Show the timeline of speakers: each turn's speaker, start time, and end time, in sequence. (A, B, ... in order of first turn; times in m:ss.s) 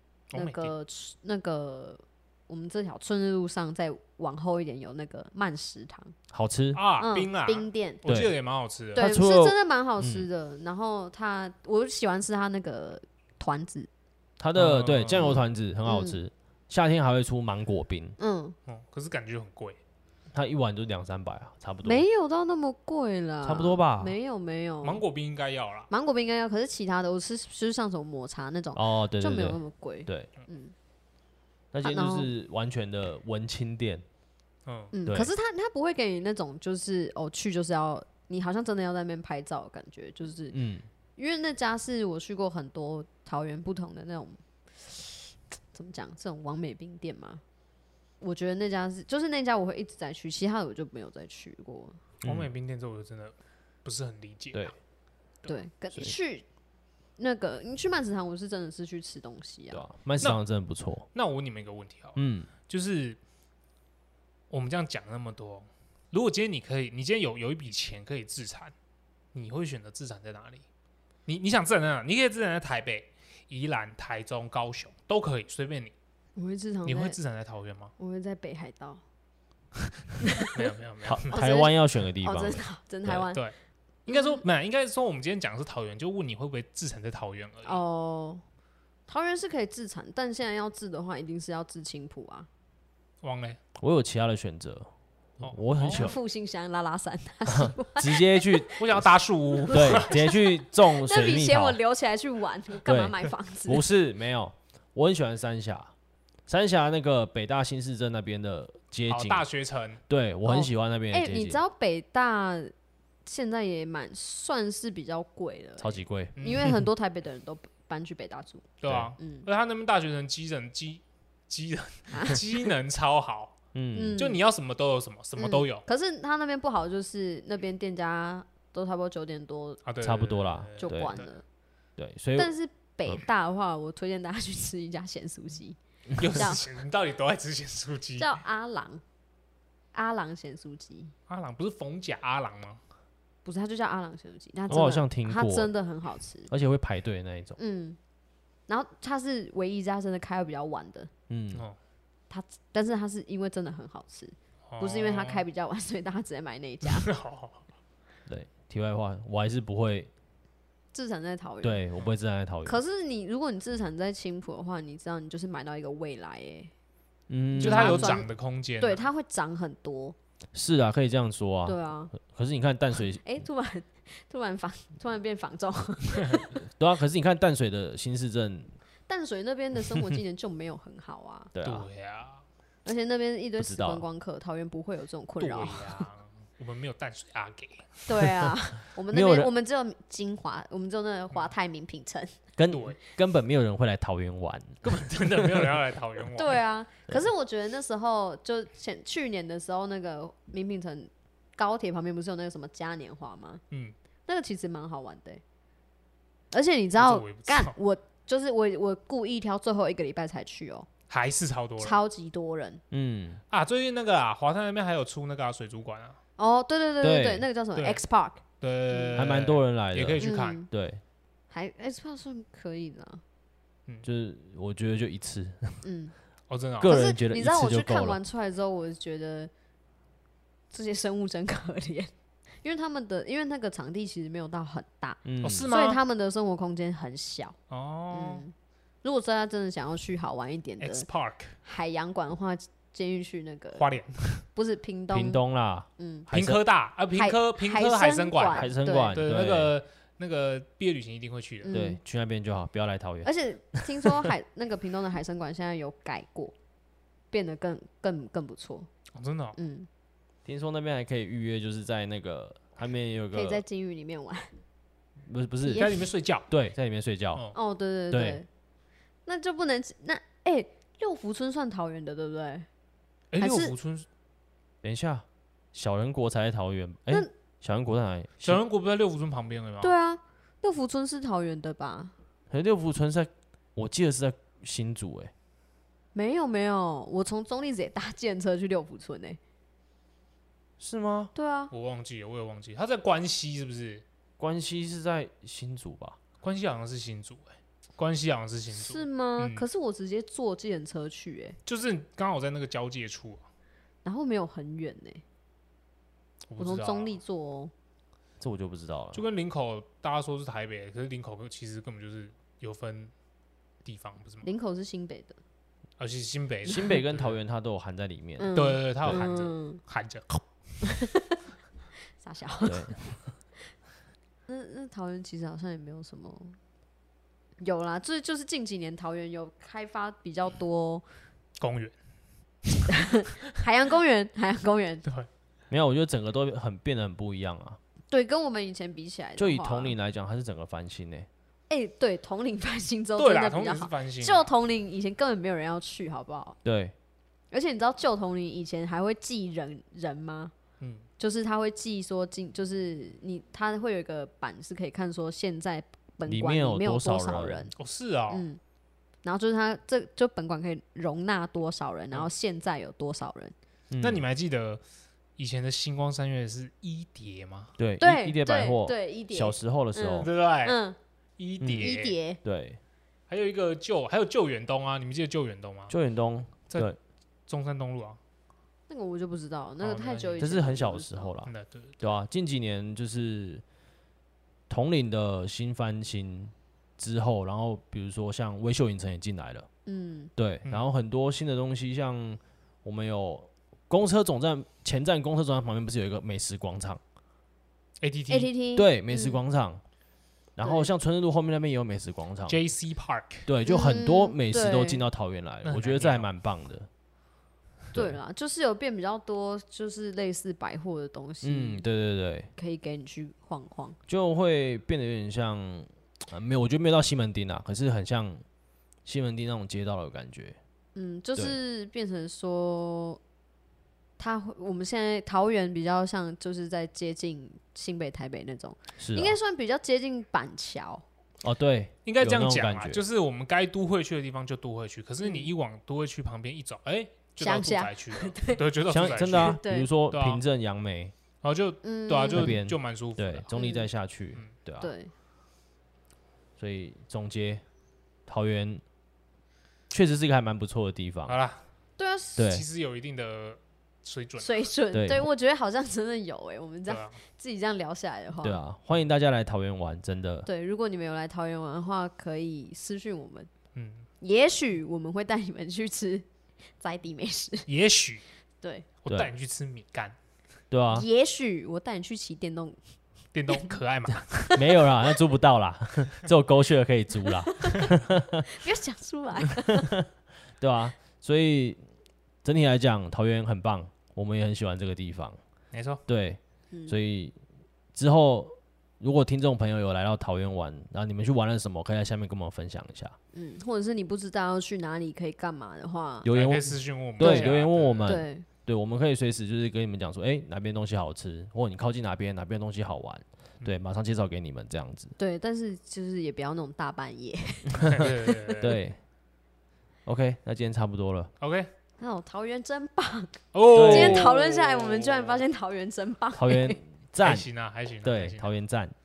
0:00.3-0:00.7 A
0:00.3-0:06.2 B
0:06.3-0:06.8 C
0:06.7-0:09.1 A
0:07.0-0:08.0 B
0:08.0-0:08.3 C
0:09.0-0:13.9 B
0:09.0-0:10.3 C
0:14.4-0:18.2 C
0:14.6-0:15.3 A
0:15.2-0:16.2 B
0:18.2-0:18.6 B
0:18.7-0:19.8 A
0:20.3-0:22.0 C
0:21.8-0:25.0 B
0:23.4-0:24.1 C
0:24.8-0:25.9 A
0:25.9-0:30.7 B
0:28.8-0:30.3 C
0:31.7-0:34.0 C
0:31.8-0:32.3 B
0:34.7-0:34.9 A
0:34.9-0:40.6 B
0:40.5-0:40.9 C
0:41.2-0:47.4 B
0:48.2-0:52.0 B
0:52.2-0:54.7 A
0:52.2-0:52.5 C
0:55.4-0:56.5 B
0:57.2-0:59.8 B
0:59.7-1:01.1 C
1:01.1-1:03.2 A
1:02.2-1:02.5 C
1:04.5-1:08.7 A
1:09.3-1:10.6 A
1:11.3-1:15.9 A
1:16.4-1:17.2 B
1:16.9-1:17.9 A
1:18.0-1:19.0 B
1:20.2-1:20.6 B
1:20.4-1:21.6 A
1:21.0-1:23.3 C
1:21.2-1:23.4 B
1:24.1-1:27.8 A
1:24.1-1:24.4 B
1:27.6-1:28.4 B
1:29.1-1:32.5 B
1:33.2-1:33.6 A
1:33.8-1:34.9 C
1:35.4-1:36.1 A
1:35.4-1:36.2 C
1:35.9-1:38.8 B
1:37.5-1:39.1 C
1:38.8-1:40.2 A
1:39.6-1:43.8 B
1:39.7-1:41.8 C
1:42.9-1:45.9 C
1:46.5-1:49.4 C
1:49.1-1:50.0 A
1:50.1-1:51.6 C
1:50.4-1:52.7 B
1:53.3-1:59.5 B
1:55.8-1:56.7 C
1:56.4-1:56.7 A
1:58.8-2:03.6 A
1:58.9-1:59.1 C
2:02.1-2:02.4 B
2:03.7-2:04.2 C
2:04.0-2:04.4 B
2:04.2-2:05.8 A
2:05.4-2:09.8 B
2:09.8-2:11.3 A
2:10.0-2:11.2 C
2:10.8-2:11.4 B
2:12.0-2:12.5 C
2:12.4-2:16.6 B
2:16.2-2:18.4 A
2:18.2-2:19.0 B
2:19.9-2:21.1 B
2:21.3-2:22.8 A
2:23.4-2:26.5 B
2:24.7-2:25.7 C
2:26.5-2:27.6 C
2:27.6-2:28.0 B
2:28.7-2:31.1 B
2:31.3-2:31.7 C
2:32.3-2:37.1 B
2:34.7-2:35.4 A
2:36.8-2:37.6 A
2:38.3-2:40.1 C
2:40.9-2:41.8 B
2:41.6-2:42.8 C
2:42.6-2:46.7 B
2:47.3-2:48.2 C
2:47.6-2:48.3 B
2:47.6-2:49.0 A
2:48.8-2:50.2 B
2:50.5-2:53.2 C
2:51.7-2:52.1 B
2:53.2-2:56.6 B
2:56.6-2:58.7 C
2:59.1-3:01.5 B
3:01.5-3:01.9 C
3:01.6-3:02.4 A
3:02.8-3:06.0 B
3:03.6-3:04.0 C
3:05.4-3:08.3 A
3:08.1-3:12.4 B
3:09.1-3:09.5 C
3:12.6-3:14.8 C
3:12.7-3:13.0 A
3:14.8-3:16.6 A
3:15.4-3:15.8 C
3:16.3-3:23.6 B
3:24.3-3:25.4 B
3:26.5-3:30.9 B
3:27.0-3:27.8 A
3:31.1-3:32.0 A
3:31.8-3:32.8 B
3:32.9-3:33.4 C
3:33.5-3:36.2 A
3:36.4-3:39.3 B
3:37.0-3:37.5 C
3:37.8-3:38.0 A
3:38.6-3:40.6 A
3:39.2-3:41.0 C
3:40.2-3:40.7 B
3:41.5-3:43.2 B
3:44.0-3:45.8 C
3:45.8-3:46.1 B
3:46.5-3:47.0 A
3:46.8-3:48.2 C
3:46.8-3:49.5 B
3:50.7-3:52.1 B
3:52.6-3:57.6 B
3:55.2-3:55.7 C
3:55.4-3:56.0 A
3:57.7-3:58.4 A
3:58.1-4:01.1 B
4:00.8-4:01.6 A
4:01.6-4:03.8 B
4:03.8-4:04.4 A
4:04.5-4:05.4 B
4:05.1-4:06.6 C
4:06.0-4:06.3 B
4:06.3-4:11.7 A
4:07.1-4:09.2 B
4:08.5-4:09.7 C
4:11.6-4:12.0 B
4:11.7-4:13.3 C
4:13.2-4:16.5 B
4:13.8-4:14.3 C
4:17.3-4:18.9 B
4:19.2-4:19.6 A
4:19.6-4:19.9 B
4:20.4-4:23.6 C
4:23.3-4:24.6 B
4:25.3-4:27.5 C
4:25.6-4:26.0 B
4:25.7-4:26.5 A
4:27.5-4:28.5 B
4:28.1-4:28.4 C
4:29.3-4:32.7 B
4:33.3-4:34.1 A
4:33.4-4:33.7 B
4:34.8-4:38.6 C
4:38.4-4:39.9 A
4:39.8-4:42.1 B
4:42.5-4:45.3 C
4:46.2-4:49.4 B
4:50.8-4:51.3 C
4:51.4-4:51.7 B
4:51.7-4:54.0 A
4:54.4-4:56.2 C
4:56.4-4:59.7 A
4:58.7-5:01.6 B
5:01.7-5:03.4 A
5:04.0-5:05.2 B
5:06.5-5:07.2 A
5:06.6-5:07.7 B
5:08.4-5:09.2 C
5:09.1-5:13.1 A
5:13.8-5:14.5 A
5:14.4-5:15.4 B
5:16.0-5:17.4 A
5:16.6-5:19.2 C
5:16.7-5:17.0 B
5:18.4-5:19.8 B
5:18.6-5:20.4 A
5:20.8-5:21.4 B
5:22.2-5:23.2 B
5:22.7-5:23.2 C
5:24.5-5:26.6 B
5:27.6-5:31.0 B
5:31.6-5:31.9 A
5:32.6-5:33.0 A
5:32.9-5:35.0 B
5:35.7-5:37.8 C
5:38.1-5:39.9 B
5:39.4-5:41.3 C
5:41.7-5:46.6 B
5:43.2-5:44.5 A
5:46.6-5:47.0 C
5:47.5-5:50.5 B
5:50.8-5:51.1 A
5:51.2-5:57.7 B
5:56.3-5:57.7 C
5:57.8-5:58.4 A
5:58.3-5:58.6 B
5:59.2-6:03.5 B
6:03.9-6:04.3 C
6:04.0-6:04.8 A
6:05.4-6:07.7 A
6:07.8-6:10.3 C
6:08.0-6:11.0 B
6:10.2-6:10.8 A
6:11.4-6:12.2 A
6:11.6-6:12.8 C
6:11.8-6:12.4 B
6:13.3-6:16.0 A
6:15.9-6:17.0 C
6:17.5-6:18.2 A
6:18.9-6:21.3 B
6:19.8-6:20.5 A
6:20.4-6:23.6 C
6:21.4-6:22.0 A
6:24.7-6:29.7 C
6:29.9-6:30.3 B
6:30.4-6:37.0 C
6:38.0-6:38.5 A
6:38.3-6:39.4 B
6:38.8-6:39.8 C
6:40.6-6:42.6 C
6:40.6-6:40.9 B
6:42.5-6:43.5 A
6:43.5-6:46.9 C
6:43.7-6:45.0 B
6:45.6-6:46.3 A
6:47.9-6:51.8 B
6:51.4-6:52.5 C
6:52.6-6:54.0 B
6:54.1-6:58.4 C
6:59.0-7:00.6 C
7:01.0-7:03.2 B
7:04.2-7:11.0 B
7:09.0-7:09.4 C
7:11.4-7:13.0 C
7:12.1-7:19.6 A
7:15.2-7:15.5 B
7:17.4-7:19.9 B
7:18.9-7:21.1 C
7:20.1-7:20.4 A
7:21.4-7:23.5 A
7:21.8-7:22.6 B
7:22.3-7:24.9 C
7:23.5-7:23.9 B
7:24.8-7:25.1 B
7:26.6-7:27.6 C
7:28.3-7:28.8 C
7:29.9-7:31.3 C
7:31.3-7:31.6 A
7:32.0-7:32.5 B
7:32.4-7:32.7 C
7:32.4-7:34.7 A
7:34.4-7:38.6 B
7:34.9-7:35.3 C
7:36.9-7:37.2 A
7:38.4-7:40.5 C
7:40.5-7:43.5 B
7:43.8-7:44.1 A
7:44.2-7:46.3 B
7:46.8-7:47.7 B
7:47.7-7:48.2 A
7:49.0-7:50.2 A
7:50.7-7:51.1 C
7:50.9-7:52.8 B
7:53.3-7:54.6 A
7:54.5-7:58.5 C
7:57.4-7:58.0 B
7:58.5-8:00.0 B
8:00.6-8:01.8 C
8:02.4-8:05.4 C
8:05.7-8:06.0 A
8:06.1-8:07.4 C
8:07.9-8:13.2 C
8:13.3-8:16.3 B
8:16.2-8:25.1 C
8:16.3-8:18.2 A
8:17.2-8:17.5 B
8:18.1-8:18.5 B
8:25.2-8:28.6 B
8:27.8-8:28.8 A
8:28.6-8:29.0 C
8:30.1-8:31.3 C
8:31.4-8:31.7 A
8:32.0-8:36.8 B
8:33.5-8:35.4 A
8:33.7-8:34.4 C
8:36.4-8:37.5 C
8:37.2-8:38.4 A
8:38.0-8:38.9 C